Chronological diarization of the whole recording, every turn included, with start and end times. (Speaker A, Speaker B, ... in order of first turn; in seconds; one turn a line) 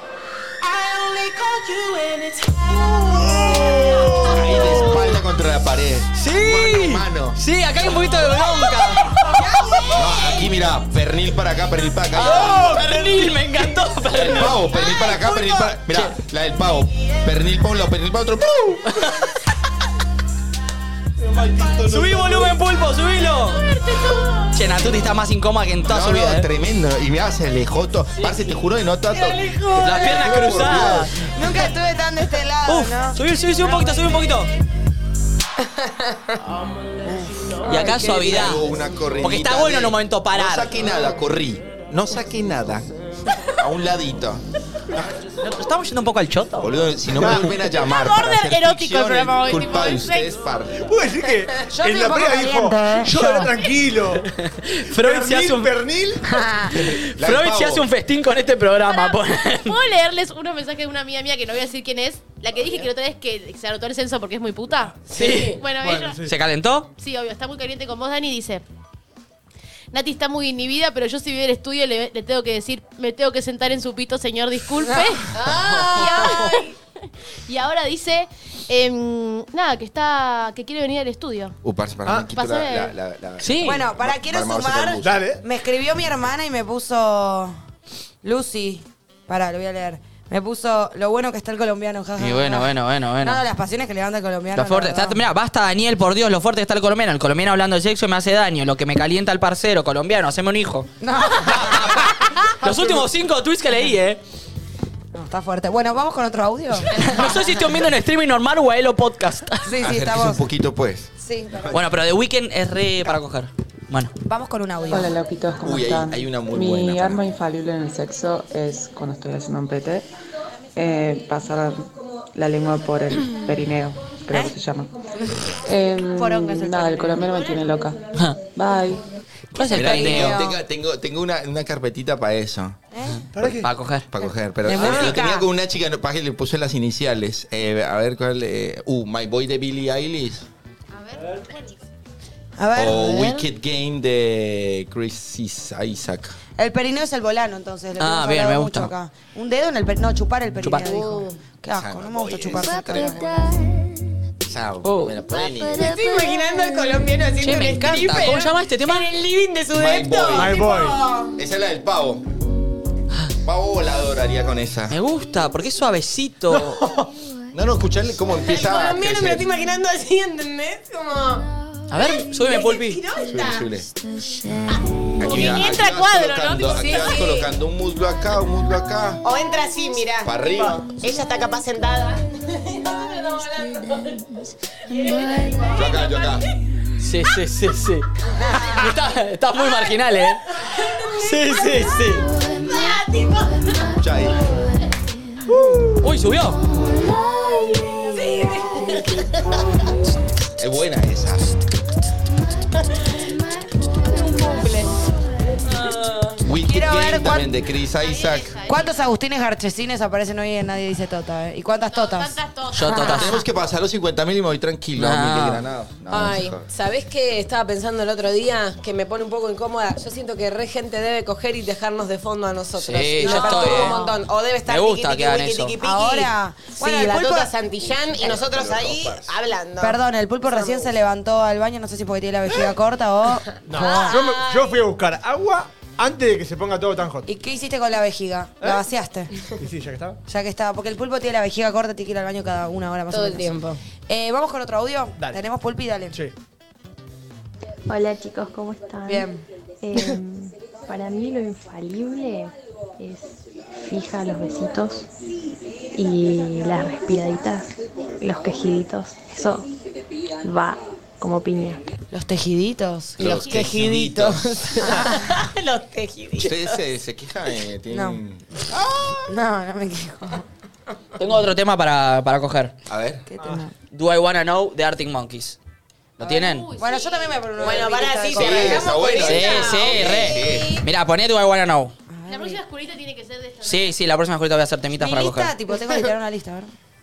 Speaker A: 0.6-4.3
Speaker B: 3.3-4.3
Speaker C: 4.2-7.4
Speaker D: 6.1-9.3
Speaker A: 9.2-10.5
Speaker C: 9.9-13.0
Speaker D: 12.1-14.6
Speaker C: 14.1-19.0
Speaker D: 15.9-16.2
Speaker D: 18.9-19.3
Speaker C: 21.2-22.5
Speaker D: 21.9-23.6
Speaker E: 23.2-24.9
Speaker D: 24.5-26.5
Speaker C: 25.8-31.2
Speaker A: 29.4-29.9
Speaker D: 29.8-31.2
Speaker F: 31.1-33.2
Speaker D: 32.6-34.5
Speaker A: 35.9-36.1
Speaker D: 37.2-38.6
Speaker F: 37.7-38.5
Speaker C: 38.1-42.9
Speaker D: 39.2-40.7
Speaker C: 43.5-45.1
Speaker D: 45.4-46.7
Speaker C: 46.6-50.9
Speaker B: 47.2-47.5
Speaker E: 47.7-50.4
Speaker B: 50.7-54.3
Speaker F: 51.7-53.5
Speaker D: 54.2-55.8
Speaker B: 54.9-56.2
Speaker F: 56.3-56.7
Speaker C: 56.7-57.9
Speaker D: 56.7-59.8
Speaker E: 58.9-65.0
Speaker D: 65.1-65.6
Speaker A: 65.1-65.6
Speaker E: 65.6-66.2
Speaker B: 65.8-66.3
Speaker D: 66.2-66.9
Speaker E: 67.0-68.6
Speaker E: 69.9-76.7
Speaker F: 74.8-75.2
Speaker A: 75.3-76.7
Speaker E: 77.5-81.5
Speaker C: 81.6-85.3
Speaker E: 82.3-82.9
Speaker D: 83.4-83.8
Speaker F: 83.6-87.5
Speaker B: 85.0-85.4
Speaker F: 88.2-95.2
Speaker D: 92.2-93.4
Speaker D: 94.5-104.2
Speaker F: 101.0-102.1
Speaker B: 102.7-103.0
Speaker F: 105.1-107.1
Speaker D: 106.9-109.8
Speaker F: 109.6-110.4
Speaker C: 109.8-111.1
Speaker F: 111.2-111.8
Speaker D: 111.7-114.1
Speaker F: 114.2-115.1
Speaker G: 114.9-120.1
Speaker C: 115.6-117.2
Speaker G: 120.8-124.9
Speaker G: 125.6-129.0
Speaker F: 126.2-127.2
Speaker D: 128.1-128.4
Speaker D: 129.5-130.4
Speaker C: 129.6-132.8
Speaker F: 129.8-130.6
Speaker F: 132.9-133.2
Speaker D: 133.1-134.1
Speaker B: 133.3-133.7
Speaker C: 134.1-140.4
Speaker F: 134.2-135.5
Speaker E: 140.9-141.8
Speaker F: 142.6-143.2
Speaker C: 142.7-146.4
Speaker A: 142.9-143.4
Speaker F: 146.6-153.5
Speaker D: 148.0-148.9
Speaker D: 150.6-150.9
Speaker A: 150.8-151.4
Speaker C: 151.7-153.4
Speaker C: 154.4-155.9
Speaker D: 154.8-155.2
Speaker A: 155.5-161.3
Speaker D: 157.4-159.1
Speaker C: 159.7-160.7
Speaker B: 160.3-161.0
Speaker C: 161.3-162.2
Speaker C: 163.4-164.9
Speaker D: 164.9-166.8
Speaker B: 166.5-167.1
Speaker C: 167.5-169.4
Speaker A: 168.4-171.5
Speaker D: 171.9-173.0
Speaker A: 172.0-173.7
Speaker C: 173.2-173.9
Speaker A: 174.7-175.2
Speaker C: 175.2-179.2
Speaker E: 175.2-177.2
Speaker A: 176.7-177.5
Speaker A: 179.2-184.3
Speaker C: 180.2-180.9
Speaker A: 184.9-186.2
Speaker C: 185.7-186.4
Speaker D: 187.0-188.1
Speaker F: 188.4-188.8
Speaker D: 188.6-190.4
Speaker A: 190.9-191.8
Speaker D: 191.0-192.3
Speaker A: 192.4-193.8
Speaker C: 193.9-194.4
Speaker B: 195.5-196.0
Speaker D: 196.0-196.6
Speaker A: 197.0-199.6
Speaker C: 200.6-201.6
Speaker A: 203.9-204.9
Speaker D: 205.7-206.2
Speaker C: 206.4-208.6
Speaker F: 206.6-207.6
Speaker E: 208.0-208.9
Speaker F: 208.6-213.3
Speaker E: 211.9-213.1
Speaker D: 212.7-213.3
Speaker C: 213.1-216.7
Speaker D: 215.0-215.6
Speaker A: 216.1-230.9
Speaker D: 222.8-224.0
Speaker F: 223.2-224.2
Speaker D: 224.7-225.7
Speaker F: 225.8-227.5
Speaker C: 227.8-229.3
Speaker F: 229.8-234.2
Speaker B: 233.7-237.3
Speaker A: 233.7-234.8
Speaker F: 237.2-239.3
Speaker B: 239.6-240.2
Speaker F: 240.3-246.2
Speaker A: 243.1-243.8
Speaker H: 247.9-249.3
Speaker F: 249.1-249.3
Speaker H: 249.8-255.1
Speaker H: 255.9-259.7
Speaker H: 260.4-261.8
Speaker F: 262.1-263.7
Speaker C: 263.2-264.9
Speaker A: 263.3-266.8
Speaker F: 264.8-265.3
Speaker C: 266.4-269.3
Speaker F: 267.9-268.2
Speaker F: 269.2-270.4
Speaker D: 271.2-272.7
Speaker C: 272.9-273.3
Speaker F: 273.3-273.7
Speaker D: 273.9-275.6
Speaker D: 276.2-276.6
Speaker E: 276.2-277.4
Speaker F: 276.8-280.9
Speaker A: 277.6-280.2
Speaker C: 278.3-280.8
Speaker D: 279.2-281.9
Speaker F: 282.1-282.6
Speaker E: 282.3-283.9
Speaker D: 283.6-285.5
Speaker F: 284.9-286.7